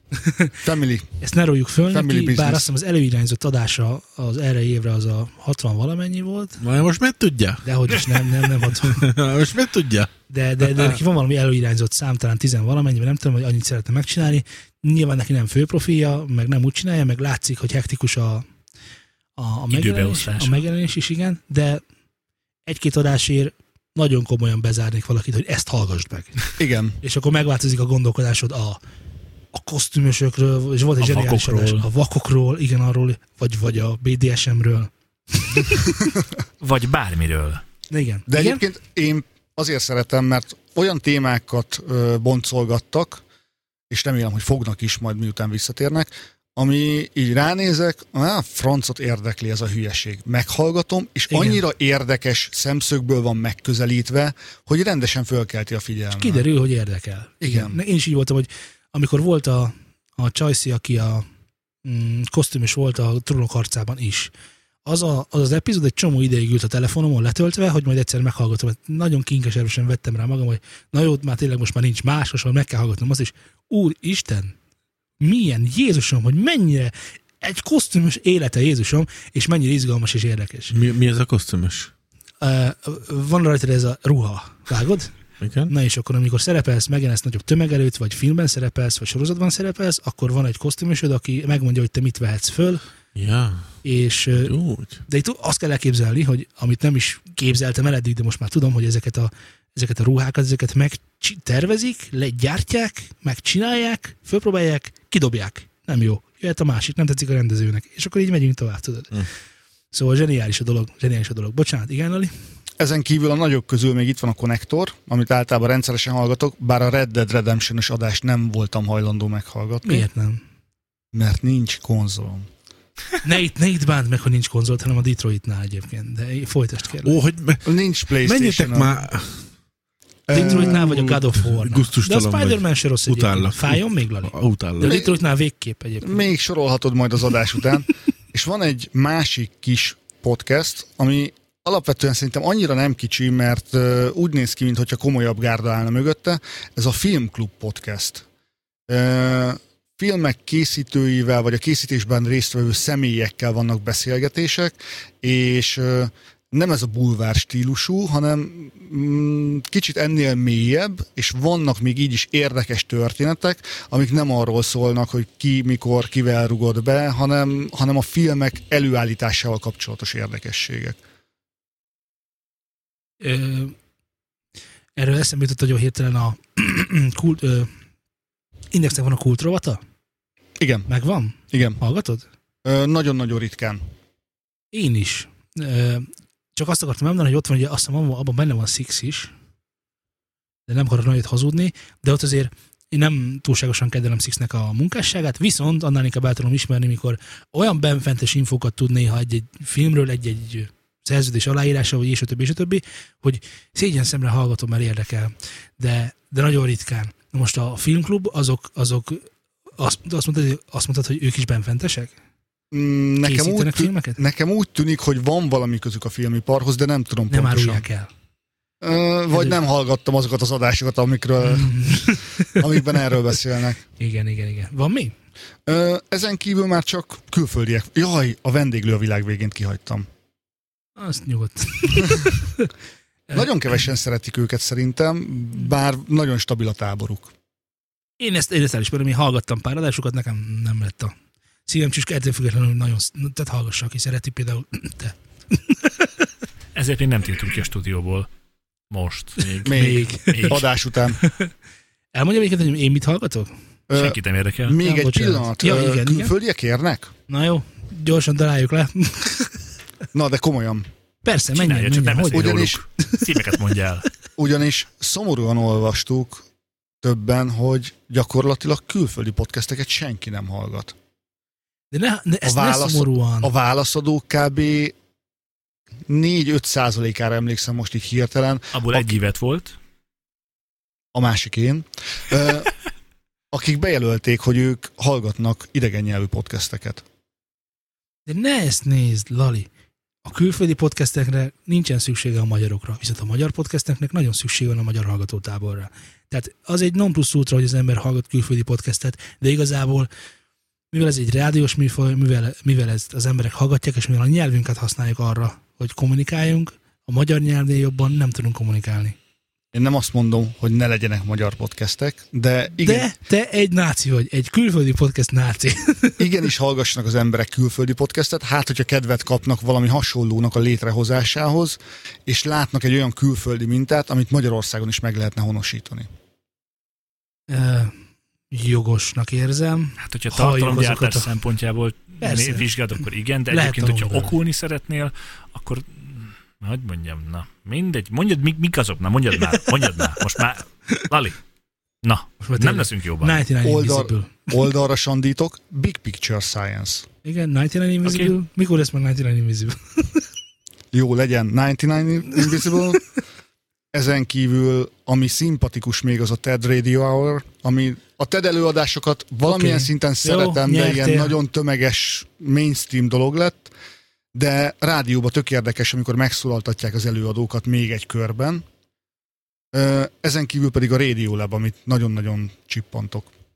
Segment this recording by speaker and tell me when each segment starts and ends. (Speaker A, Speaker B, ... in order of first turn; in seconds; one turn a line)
Speaker A: 0.2-0.5
Speaker B: 0.6-1.1
Speaker A: 1.2-6.6
Speaker B: 1.9-2.7
Speaker C: 6.6-10.1
Speaker A: 7.6-9.1
Speaker A: 10.3-18.4
Speaker C: 10.6-11.0
Speaker A: 19.4-21.8
Speaker D: 19.7-20.6
Speaker A: 22.6-26.5
Speaker B: 26.6-27.0
Speaker A: 27.0-28.8
Speaker A: 29.5-36.0
Speaker D: 31.0-31.9
Speaker D: 36.6-37.6
Speaker A: 37.9-38.6
Speaker B: 38.3-43.2
Speaker B: 43.9-56.4
Speaker A: 51.3-51.6
Speaker A: 56.1-61.2
Speaker B: 57.4-57.8
Speaker A: 61.8-64.3
Speaker A: 64.8-74.5
Speaker A: 75.2-80.7
Speaker C: 80.7-81.9
Speaker A: 82.4-85.1
Speaker C: 85.4-85.7
Speaker A: 85.7-92.8
Speaker C: 93.1-93.7
Speaker A: 93.8-94.5
Speaker C: 94.4-95.0
Speaker A: 95.0-109.2
Speaker A: 109.9-112.3
Speaker B: 112.8-120.1
Speaker A: 119.8-120.4
Speaker B: 121.1-122.5
Speaker A: 123.2-127.2
Speaker C: 127.0-127.7
Speaker B: 127.6-129.0
Speaker C: 128.2-129.4
Speaker B: 130.3-131.1
Speaker A: 130.3-136.3
Speaker C: 130.3-135.0
Speaker B: 134.8-135.1
Speaker B: 136.0-148.2
Speaker B: 148.9-171.0
Speaker A: 173.2-173.8
Speaker A: 174.9-177.7
Speaker A: 178.7-179.8
Speaker B: 180.6-180.9
Speaker A: 180.9-182.2
Speaker B: 181.5-181.8
Speaker B: 182.6-183.8
Speaker A: 184.7-189.3
Speaker A: 190.7-212.1
Speaker B: 212.7-217.8
Speaker A: 213.2-214.2
Speaker A: 217.3-218.1
Speaker B: 218.8-223.8
Speaker A: 219.3-219.6
Speaker A: 221.4-222.7
Speaker A: 224.0-225.1
Speaker B: 225.7-230.1
Speaker A: 231.0-232.7
Speaker B: 233.3-237.3
Speaker A: 238.2-241.1
Speaker A: 241.7-246.2
Speaker D: 246.7-248.3
Speaker D: 248.9-249.5
Speaker C: 249.4-249.9
Speaker B: 249.6-251.2
Speaker A: 249.6-250.6
Speaker D: 250.3-250.6
Speaker A: 251.2-251.5
Speaker A: 252.1-253.5
Speaker B: 253.9-257.1
Speaker D: 253.9-254.8
Speaker A: 254.8-256.3
Speaker A: 257.3-259.6
Speaker B: 260.1-260.9
Speaker A: 261.2-263.3
Speaker D: 261.5-264.1
Speaker B: 262.3-262.8
Speaker B: 264.4-266.4
Speaker B: 267.0-270.9
Speaker A: 271.9-273.5
Speaker B: 272.4-274.9
Speaker B: 276.1-279.2
Speaker D: 278.7-279.7
Speaker B: 281.1-282.7
Speaker B: 283.5-287.0
Speaker A: 288.3-289.7
Speaker A: 290.2-300.1
Speaker A: 300.9-309.2
Speaker B: 309.7-313.1
Speaker A: 312.8-316.2
Speaker B: 316.2-326.1
Speaker A: 327.5-327.9
Speaker A: 328.5-331.4
Speaker D: 330.0-341.4
Speaker A: 332.2-332.7
Speaker A: 333.5-334.4
Speaker D: 342.0-343.4
Speaker A: 342.4-344.5
Speaker B: 343.6-347.0
Speaker A: 347.2-350.2
Speaker D: 348.0-348.3
Speaker B: 350.9-353.1
Speaker B: 353.9-363.7
Speaker A: 359.4-361.3
Speaker B: 364.3-368.6
Speaker B: 369.7-373.3